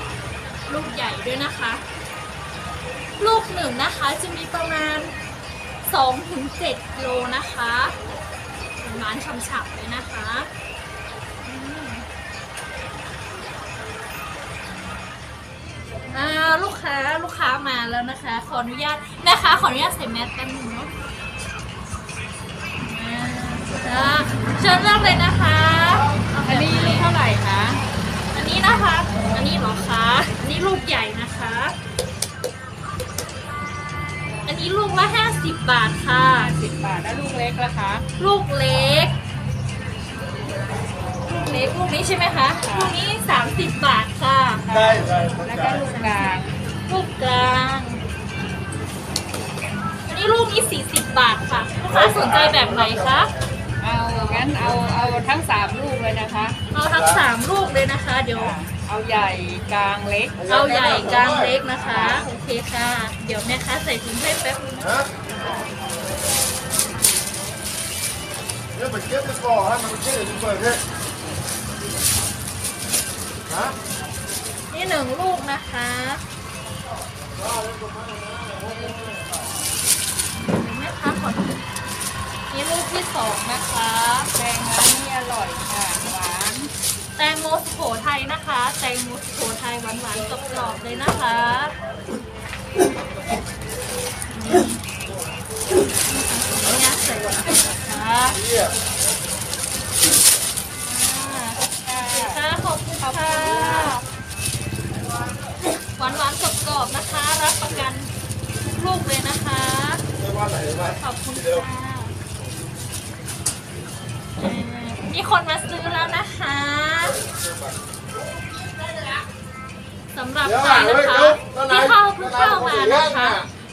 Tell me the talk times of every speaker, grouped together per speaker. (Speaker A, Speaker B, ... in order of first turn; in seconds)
Speaker A: 0.7-1.8, 3.2-5.1, 5.8-7.9, 8.8-10.5, 11.4-12.1, 16.1-20.9, 22.8-27.1, 28.3-31.8, 34.5-36.5, 38.2-39.1, 41.2-45.0, 45.7-46.3, 46.9-48.0, 50.1-53.3, 56.7-58.6, 60.5-65.0, 74.7-76.2, 78.7-79.2, 80.4-81.6, 82.5-84.3, 87.2-91.8, 94.3-94.8, 95.8-98.4, 100.8-104.0, 106.0-108.1, 108.7-110.0, 111.0-112.2, 114.4-117.2, 120.1-123.5
Speaker B: 26.4-27.8, 36.3-38.0, 42.6-43.0, 44.7-46.5, 53.8-56.6, 58.3-60.4, 61.8-62.2, 84.3-86.7, 101.8-102.5, 103.0-104.0
Speaker C: 68.8-70.8, 77.6-78.6, 110.2-110.9, 120.8-121.5